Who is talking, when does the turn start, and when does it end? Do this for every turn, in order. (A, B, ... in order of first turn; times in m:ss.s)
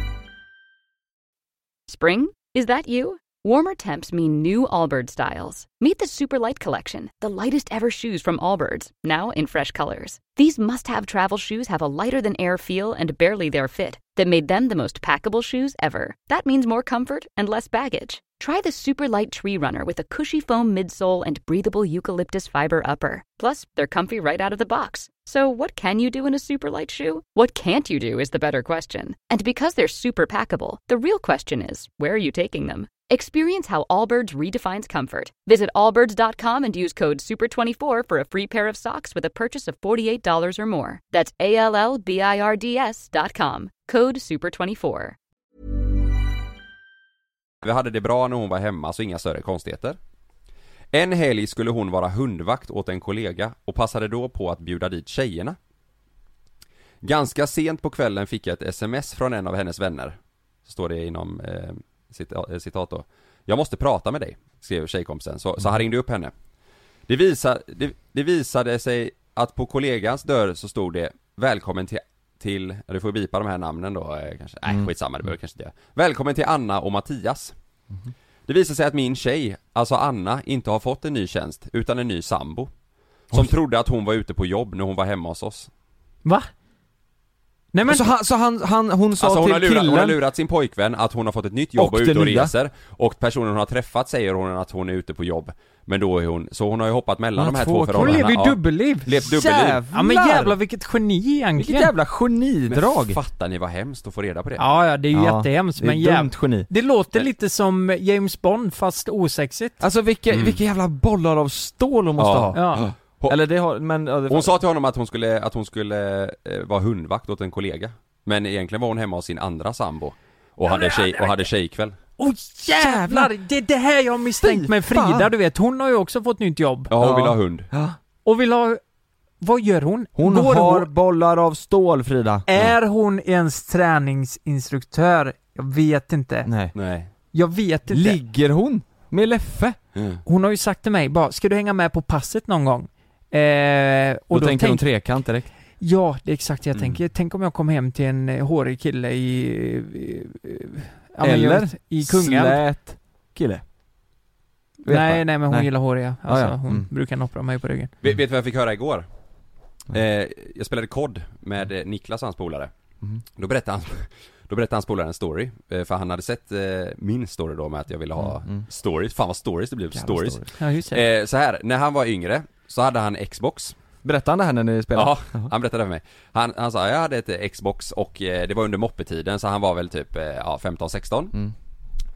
0:01.9-0:45.2 A
0:47.6-0:50.0 B
0:50.9-0:55.6 B
0:57.0-1:06.3 B
1:07.1-1:17.5 B
1:18.5-1:22.7 B
1:23.3-1:25.7 B
1:27.7-1:28.0 C
1:27.8-1:30.2 D
1:29.2-1:39.8 B
1:31.8-1:32.5 D
1:37.4-1:38.4 D
1:37.9-1:39.3 C
1:39.2-1:40.6 D
1:39.9-1:41.9 C
1:41.6-1:43.2 D
1:42.7-1:44.6 B
1:44.6-1:49.8 C
1:45.1-1:46.7 D
1:49.8-1:54.6 D
1:50.3-1:50.6 B
1:52.2-1:53.4 B
1:52.5-1:52.8 C
1:54.3-2:02.0 B
2:00.7-2:01.4 C
2:02.2-2:06.9 C
2:02.7-2:03.3 D
2:04.4-2:05.3 D
2:06.9-2:07.7 B
2:07.0-2:08.0 D
2:08.2-2:08.8 C
2:09.4-2:10.9 C
2:10.2-2:12.5 D
2:12.5-2:16.5 C
2:16.4-2:16.7 D
2:16.7-2:17.1 B
2:17.3-2:18.2 C
2:17.9-2:19.8 D
2:19.9-2:20.2 B
2:20.2-2:32.6 C
2:24.3-2:25.5 D
2:31.2-2:33.6 D
2:34.8-2:36.9 D
2:34.9-2:37.9 C
2:38.0-2:39.0 B
2:39.9-2:42.7 B
2:43.3-2:53.7 B
2:48.2-2:48.6 D
2:49.9-2:50.4 D
2:50.6-2:51.0 C
2:54.0-2:55.5 D
2:54.9-3:01.3 B